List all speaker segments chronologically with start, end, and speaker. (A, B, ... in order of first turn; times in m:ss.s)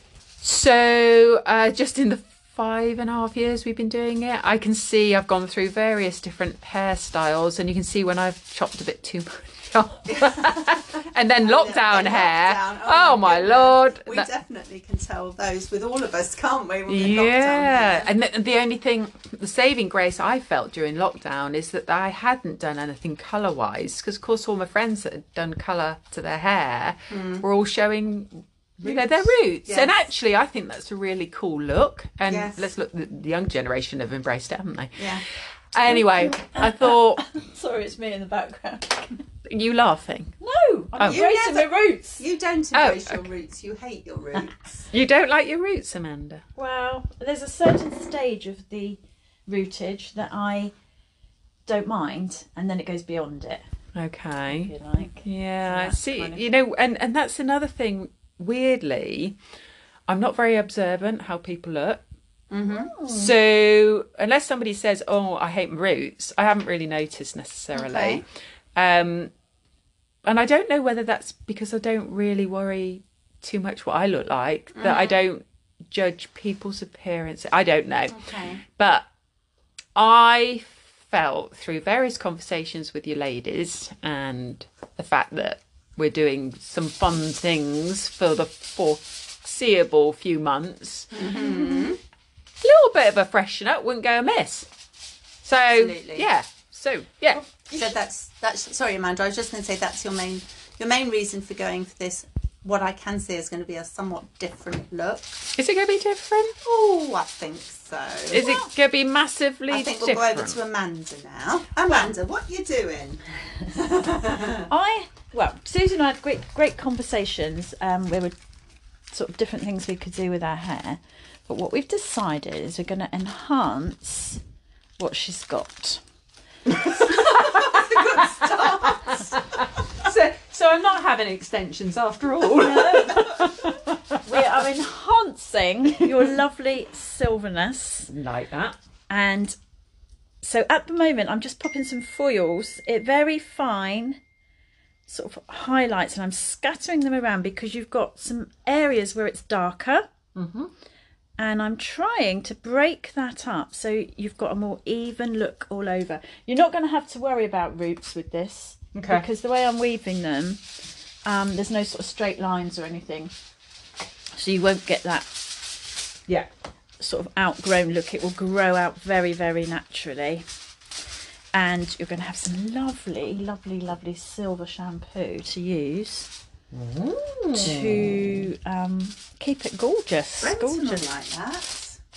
0:00.4-0:14.3 A
0:10.0-0:18.1 B
0:16.9-0:37.3 A
0:27.1-0:27.4 B
0:28.8-0:30.0 B
0:32.3-0:32.7 B
0:35.0-0:35.2 B
0:36.4-0:39.2 C
0:39.4-0:40.3 A
0:40.4-0:42.2 C
0:41.0-0:41.2 A
0:41.0-0:44.9 B
0:42.7-0:43.2 A
0:44.9-0:46.4 A
0:46.6-0:50.7 C
0:51.6-0:53.6 C
0:53.9-0:59.4 A
0:54.5-0:56.4 C
1:00.1-1:02.0 A
1:02.5-1:02.9 B
1:02.7-1:03.3 C
1:03.0-1:09.3 A
1:07.7-1:08.2 B
1:10.2-1:19.1 A
1:14.8-1:15.2 B
1:18.1-1:18.6 B
1:19.9-1:31.1 A
1:31.1-1:32.0 B
1:31.4-1:31.9 C
1:32.6-1:34.7 A
1:35.4-1:37.4 A
1:35.8-1:36.2 C
1:35.8-1:36.2 B
1:37.4-1:37.9 C
1:37.7-1:45.4 B
1:45.6-1:46.6 A
1:46.6-1:48.4 B
1:48.3-1:50.6 A
1:48.3-1:48.7 C
1:49.7-1:54.7 B
1:54.7-1:58.4 C
1:59.1-2:04.4 C
2:05.0-2:06.0 C
2:06.7-2:14.2 A
2:06.8-2:09.4 B
2:12.5-2:13.5 C
2:14.2-2:18.1 C
2:18.1-2:18.8 A
2:19.1-2:19.6 C
2:20.4-2:24.2 C
2:25.1-2:30.1 C
2:30.4-2:30.7 A
2:31.4-2:40.6 C
2:38.9-2:39.2 A
2:41.2-2:43.3 C
2:44.3-2:45.4 C
2:47.0-2:50.4 C
2:51.5-2:56.3 C
2:56.7-2:58.5 A
2:57.5-3:01.1 C
3:00.4-3:02.0 B